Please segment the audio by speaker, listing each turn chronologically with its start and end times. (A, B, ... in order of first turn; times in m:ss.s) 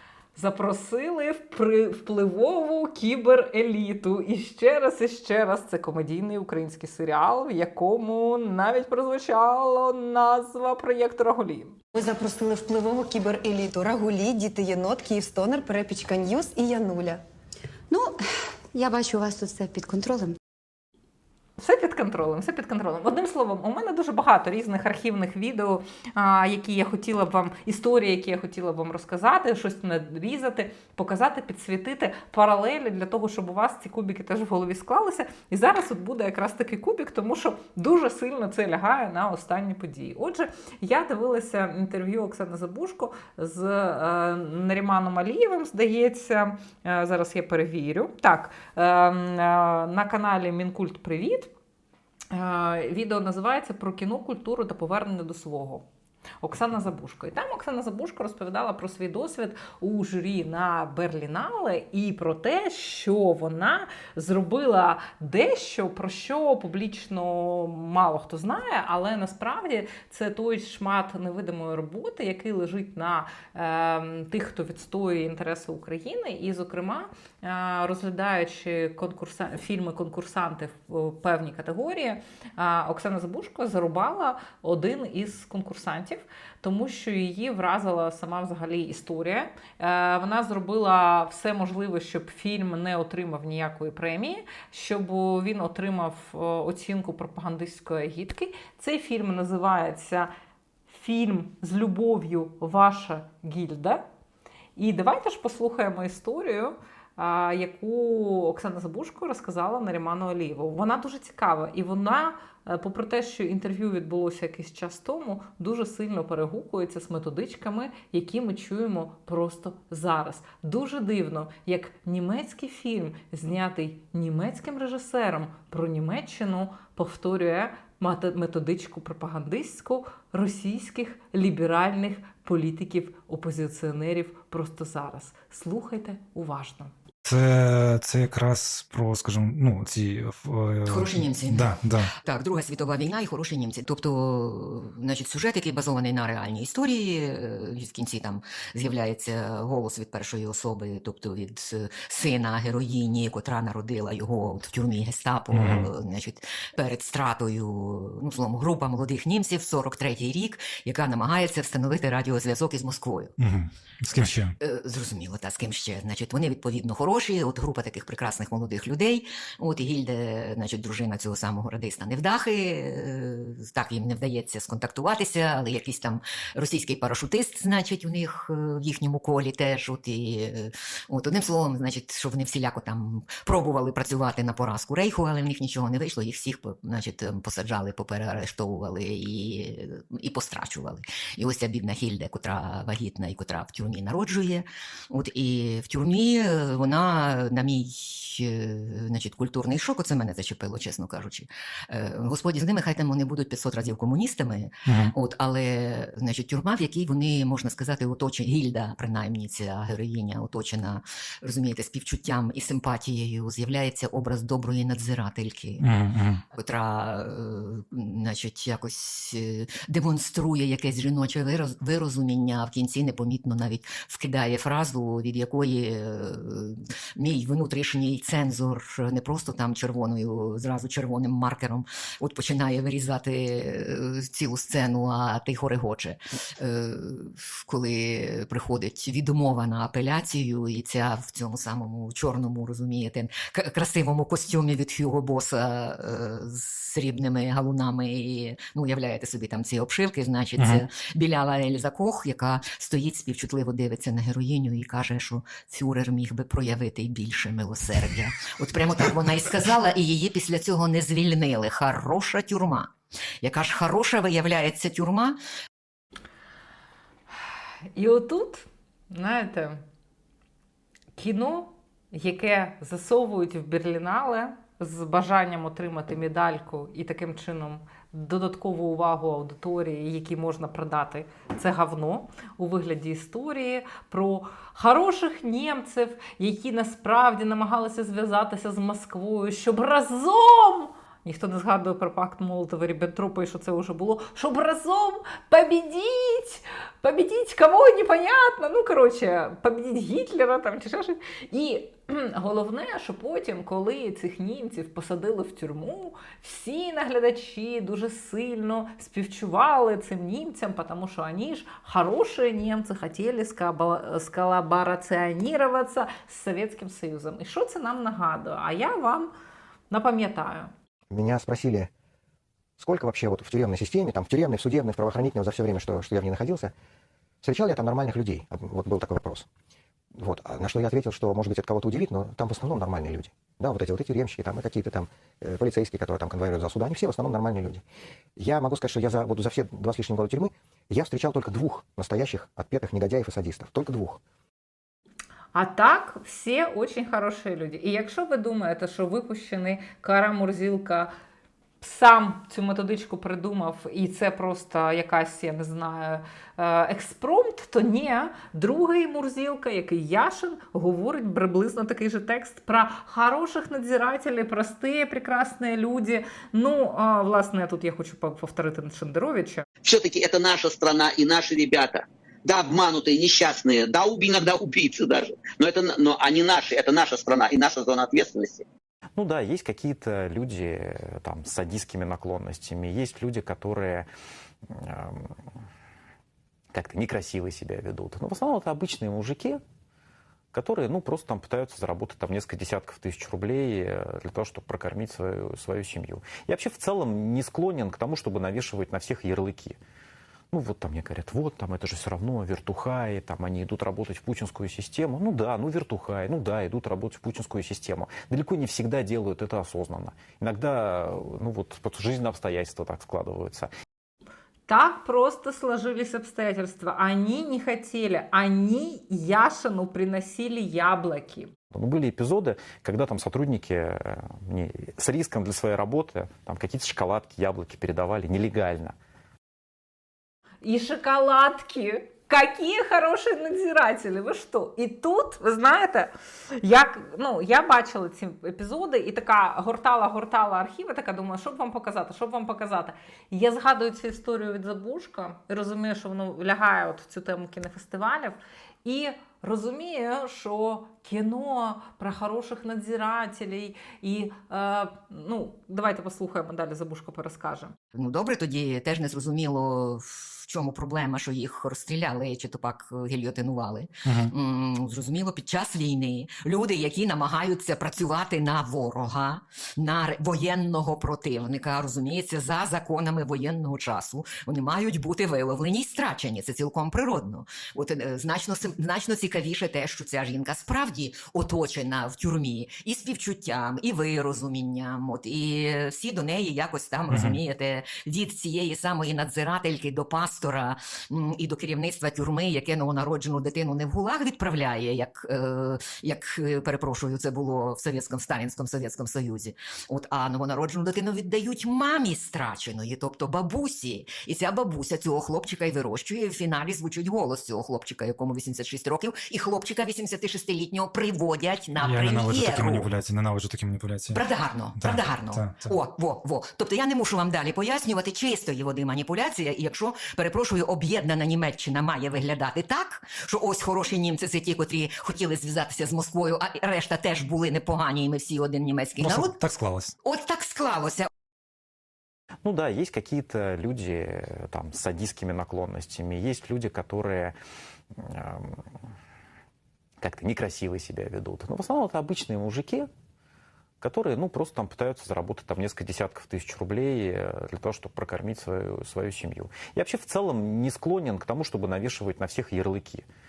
0:00.3-0:11.8 A
0:11.9-0:17.2 B
0:17.9-0:20.4 C
0:21.6-0:51.5 A
0:52.3-0:55.8 A
0:56.4-1:40.3 A
1:40.9-1:44.0 A
1:44.8-2:16.9 A
2:17.2-2:22.1 D
2:20.8-2:43.3 E
2:35.5-2:35.9 D
2:43.4-2:44.6 D
2:44.2-3:35.9 E
3:24.8-3:25.1 D
3:35.8-3:36.4 D
3:36.5-4:22.9 E
4:10.6-4:10.8 D
4:23.4-4:25.4 E
4:27.9-4:29.8 A
4:31.2-5:19.3 A
5:19.9-5:20.7 A
5:21.1-5:21.9 F
5:22.8-5:26.7 F
5:27.4-5:29.4 F
5:30.2-5:37.8 F
5:38.4-5:44.2 F
5:45.5-5:51.1 A
5:51.8-6:09.6 A
6:09.8-6:18.6 G
6:19.2-6:24.1 H
6:24.7-6:25.3 H
6:26.7-6:29.6 H
6:30.5-6:39.8 H
6:40.5-6:53.7 H
6:54.7-7:01.5 A
7:01.7-7:08.9 H
7:10.6-7:37.7 A
7:37.9-8:32.9 E
7:44.0-7:44.3 D
8:07.1-8:07.4 D
8:31.8-8:34.2 D
8:34.1-8:49.4 E
8:34.8-8:35.7 D
8:49.0-8:50.0 D
8:50.0-8:51.1 E
8:52.4-8:57.3 H
8:58.0-8:58.6 H
9:00.0-9:02.9 H
9:03.8-9:13.0 H